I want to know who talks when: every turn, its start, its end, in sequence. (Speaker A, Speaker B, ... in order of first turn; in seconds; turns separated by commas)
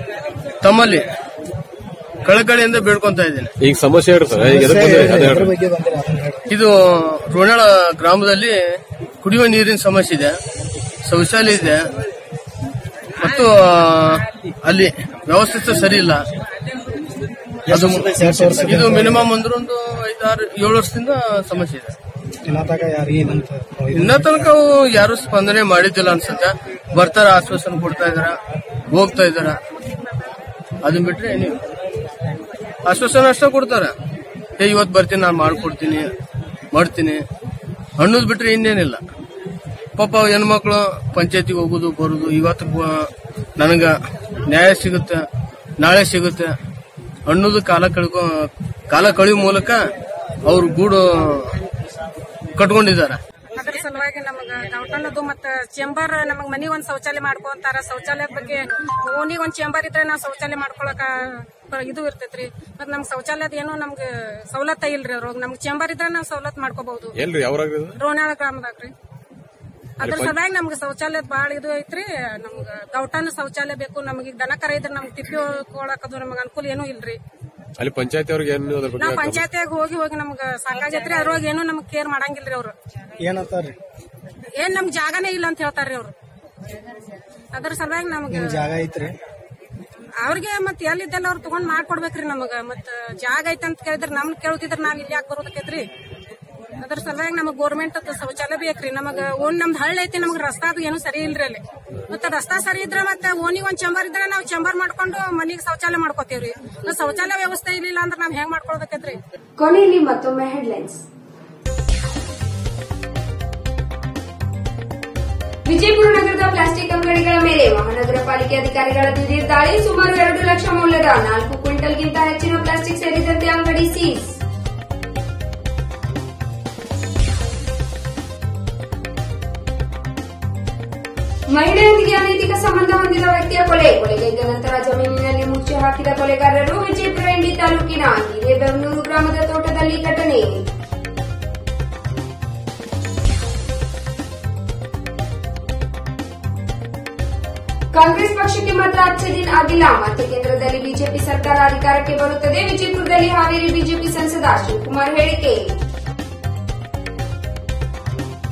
Speaker A: 0.6-1.1, Speaker A: 2.2-3.5, Speaker B: 3.6-5.5, Speaker C: 4.3-6.4, Speaker A: 6.5-10.4, Speaker A: 11.1-11.8, Speaker A: 13.2-16.2, Speaker C: 17.7-19.3, Speaker A: 17.7-21.9, Speaker C: 22.5-24.5, Speaker A: 23.9-28.4, Speaker A: 28.9-29.6, Speaker A: 30.8-31.6, Speaker A: 32.9-33.9, Speaker A: 34.6-36.1, Speaker A: 36.7-37.2, Speaker A: 38.0-39.0, Speaker A: 40.0-45.2, Speaker A: 45.8-46.5, Speaker A: 47.3-49.9, Speaker A: 50.5-51.5, Speaker A: 52.5-53.2, Speaker D: 53.5-67.1, Speaker B: 67.2-68.0, Speaker D: 68.0-68.9, Speaker D: 70.0-77.2, Speaker B: 70.0-70.3, Speaker B: 77.8-79.5, Speaker D: 79.0-82.7, Speaker C: 83.2-83.8, Speaker D: 84.6-86.1, Speaker D: 87.5-88.6, Speaker C: 88.3-89.1, Speaker D: 90.2-95.9, Speaker D: 96.8-109.2, Speaker E: 109.6-111.0, Speaker E: 115.7-124.4, Speaker E: 131.5-140.5, Speaker E: 147.9-155.7